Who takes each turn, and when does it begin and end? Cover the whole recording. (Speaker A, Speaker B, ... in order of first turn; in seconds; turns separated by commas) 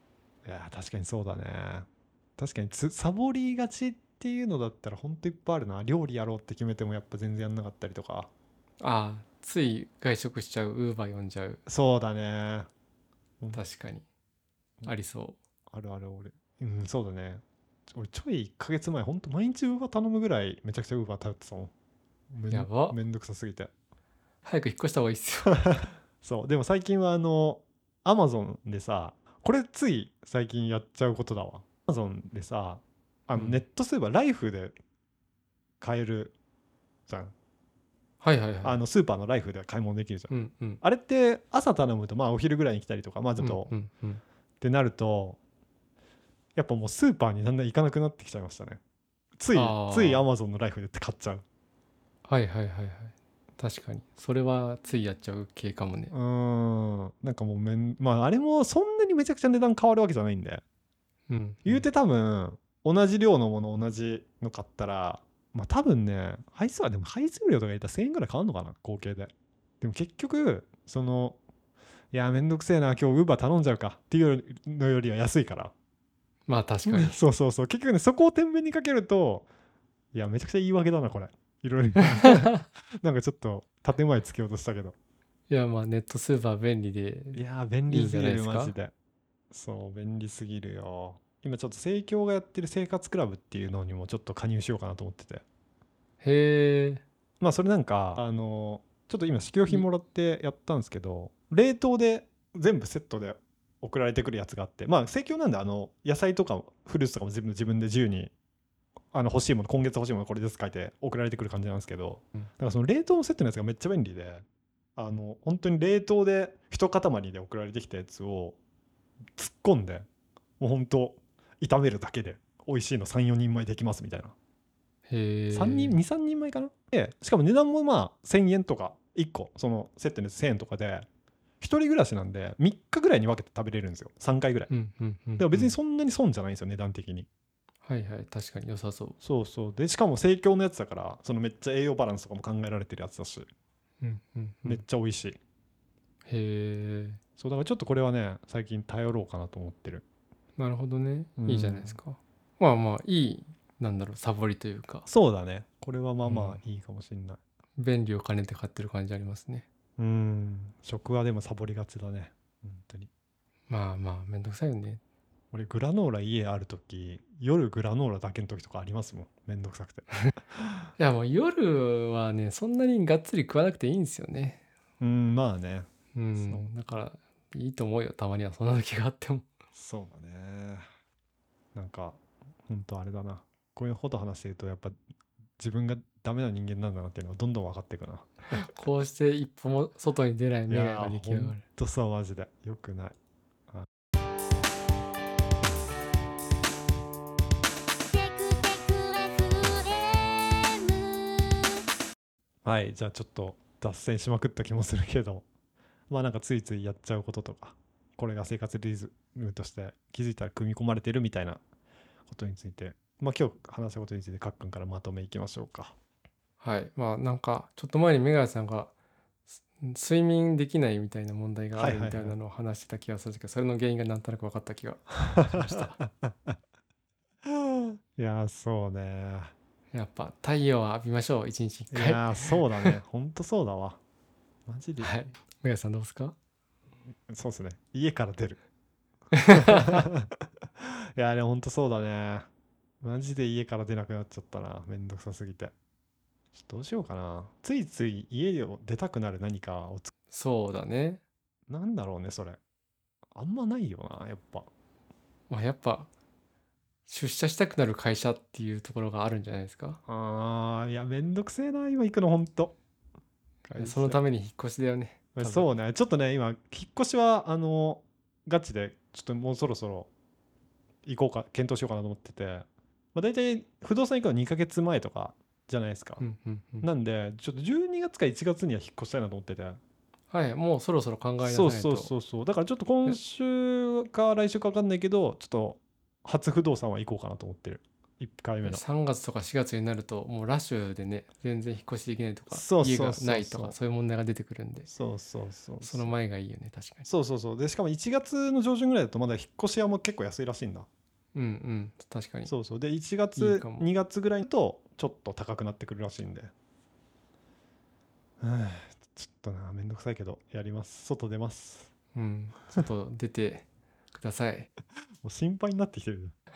Speaker A: 0.4-8.3, Speaker B: 8.8-11.6, Speaker A: 11.7-12.7, Speaker B: 13.5-14.0, Speaker B: 14.8-15.4, Speaker A: 15.7-21.7, Speaker A: 22.3-23.7, Speaker B: 22.5-23.0, Speaker B: 24.4-25.6, Speaker A: 25.6-34.7, Speaker A: 35.8-36.4, Speaker A: 37.1-37.3, Speaker B: 38.2-38.8, Speaker A: 38.6-43.7, Speaker B: 40.3-40.8, Speaker B: 43.4-44.2, Speaker A: 44.6-45.4, Speaker A: 46.5-48.8, Speaker A: 49.4-51.4, Speaker B: 49.5-50.2, Speaker B: 52.2-56.1, Speaker A: 56.1-60.6, Speaker B: 61.3-61.9, Speaker A: 61.6-71.4, Speaker A: 72.1-75.7, Speaker B: 76.5-77.2, Speaker A: 76.9-79.5, Speaker A: 80.1-84.9, Speaker B: 82.2-82.5, Speaker B: 85.5-88.8, Speaker A: 87.3-88.9, Speaker A: 89.5-95.4, Speaker B: 96.2-97.0, Speaker A: 97.4-108.3, Speaker A: 109.1-114.4, Speaker A: 115.0-118.6, Speaker A: 119.4-120.0, Speaker A: 120.6-124.3, Speaker B: 125.1-126.0, Speaker A: 125.5-131.1, Speaker A: 131.6-134.7, Speaker B: 134.7-135.8, Speaker A: 135.4-137.3, Speaker B: 137.8-139.2, Speaker A: 139.2-143.5, Speaker B: 144.0-144.8, Speaker A: 144.6-145.4, Speaker B: 146.2-147.2, Speaker A: 147.4-150.0, Speaker B: 150.6-155.1, Speaker A: 151.4-152.0, Speaker A: 155.1-157.4, Speaker B: 156.2-156.6, Speaker B: 157.8-159.7, Speaker A: 160.0-163.1, Speaker B: 163.7-165.0, Speaker A: 165.5-170.7, Speaker B: 171.0-174.6, Speaker A: 175.0-176.7, Speaker B: 176.1-179.5, Speaker A: 179.8-180.9, Speaker A: 181.8-185.0, Speaker A: 185.6-188.3, Speaker B: 188.5-191.6, Speaker A: 190.7-193.1, Speaker C: 198.1-201.5, Speaker A: 202.6-205.4, Speaker A: 206.1-211.6, Speaker A: 212.3-215.9, Speaker B: 216.6-218.9, Speaker B: 219.6-226.0, Speaker A: 221.8-222.3, Speaker A: 225.4-226.5, Speaker A: 227.5-229.5, Speaker B: 229.9-233.0, Speaker A: 231.9-234.0, Speaker A: 234.7-235.1, Speaker B: 235.0-236.3, Speaker A: 237.3-238.6, Speaker B: 239.4-240.0, Speaker A: 239.5-240.3, Speaker A: 240.8-242.5, Speaker A: 243.0-245.7, Speaker A: 246.5-250.1, Speaker B: 250.3-251.2, Speaker A: 251.7-252.6, Speaker A: 253.3-254.7, Speaker B: 255.5-256.1, Speaker B: 257.1-260.0, Speaker A: 260.1-262.7, Speaker B: 263.7-265.7, Speaker A: 263.7-264.2, Speaker A: 265.4-270.1, Speaker A: 271.0-276.2, Speaker B: 276.2-276.9, Speaker A: 276.8-279.8, Speaker B: 280.3-282.1, Speaker A: 281.4-288.8, Speaker B: 288.6-294.9, Speaker A: 292.5-293.8, Speaker A: 294.9-296.1, Speaker B: 295.8-297.1, Speaker A: 297.0-300.9, Speaker B: 301.4-302.5, Speaker A: 302.5-306.5, Speaker B: 303.4-303.9, Speaker A: 308.4-311.9, Speaker B: 312.1-314.7, Speaker A: 315.2-316.3